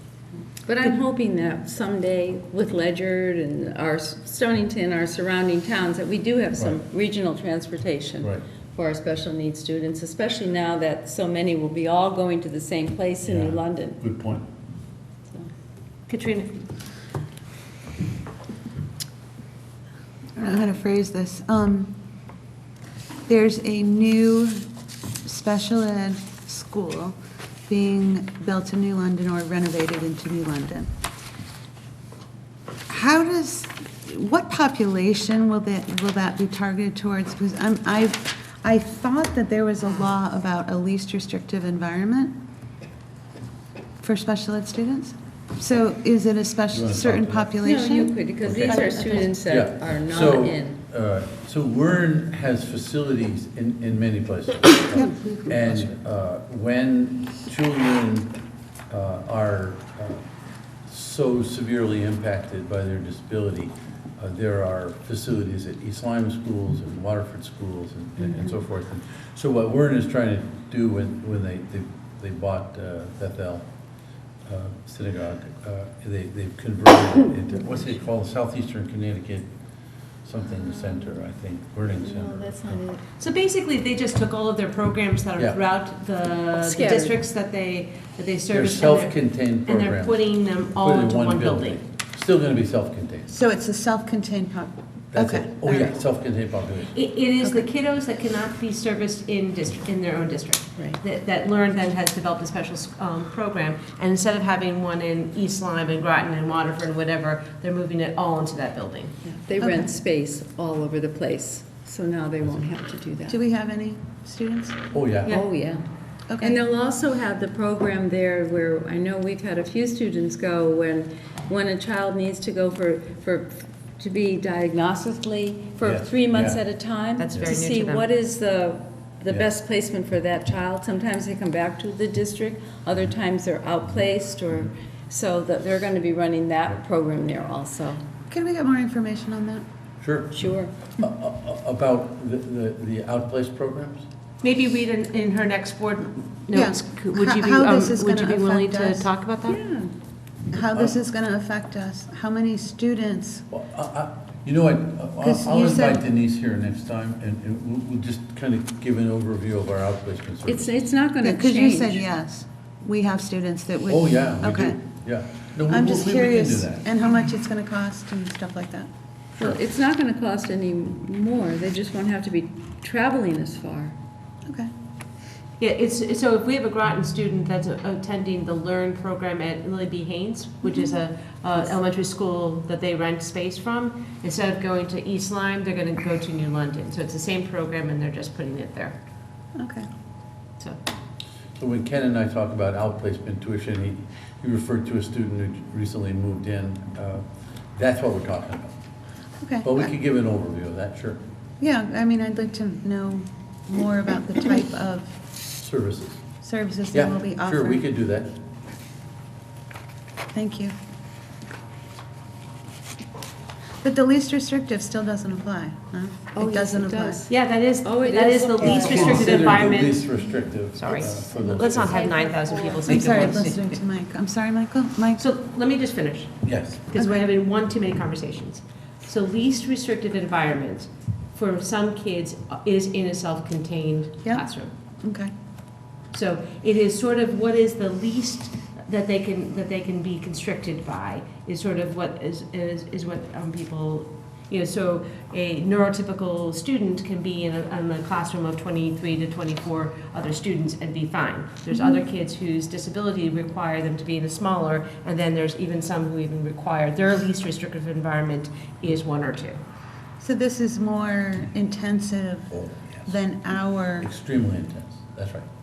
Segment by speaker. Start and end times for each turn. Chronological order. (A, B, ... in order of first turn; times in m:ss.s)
0:00.7-0:14.0 A
0:13.2-0:14.4 B
0:16.1-0:16.6 C
0:20.4-0:21.9 D
0:23.3-0:24.7 D
0:25.2-0:27.2 D
0:27.7-0:30.9 D
0:32.9-0:42.3 D
0:44.0-0:49.3 D
0:46.7-0:47.5 B
0:47.6-0:50.8 A
0:48.4-0:58.3 B
0:58.9-1:00.2 B
1:00.9-1:13.7 B
1:14.4-1:19.5 B
1:20.2-1:22.8 B
1:22.0-1:23.0 A
1:23.2-1:31.8 C
1:26.6-1:27.2 A
1:28.5-1:30.2 B
1:30.8-1:33.3 B
1:33.3-1:36.0 D
1:35.1-1:37.0 B
1:36.9-1:49.1 C
1:37.4-1:37.7 D
1:49.2-1:53.4 A
1:49.6-1:49.9 D
1:53.3-1:54.8 D
1:54.9-1:55.4 B
1:55.3-1:55.8 A
1:56.3-1:56.6 D
1:56.4-2:18.0 A
2:05.8-2:06.6 B
2:07.2-2:08.1 C
2:18.3-2:19.6 D
2:20.0-2:20.4 B
2:20.3-2:20.7 A
2:21.0-2:24.1 B
2:24.4-2:29.6 C
2:26.5-2:29.1 D
2:29.4-2:29.9 A
2:30.5-2:33.4 D
2:30.6-2:30.9 B
2:33.5-2:40.8 B
2:35.2-2:36.0 D
2:40.5-2:42.0 A
2:41.2-2:44.8 D
2:43.9-2:46.8 B
2:45.7-2:48.9 D
2:49.4-2:53.9 A
2:55.6-3:09.0 C
3:00.6-3:00.9 D
3:09.6-3:09.9 D
3:11.6-3:18.7 B
3:19.4-3:19.9 D
3:19.6-3:21.2 B
3:21.6-3:25.2 D
3:25.6-3:26.2 B
3:26.4-3:27.8 D
3:26.9-3:28.3 B
3:30.3-3:30.8 D
3:33.8-3:37.2 D
3:36.4-3:37.3 A
3:37.3-3:40.0 C
3:37.8-3:39.7 A
3:38.6-3:42.1 B
3:38.8-3:39.2 D
3:40.8-3:43.6 C
3:41.7-3:43.4 A
3:42.8-3:45.2 D
3:45.2-3:54.7 C
3:46.4-3:46.8 B
3:55.0-3:55.3 D
3:56.1-4:19.6 C
4:11.7-4:12.0 D
4:20.2-4:24.1 D
4:22.5-4:23.1 B
4:24.0-4:25.5 B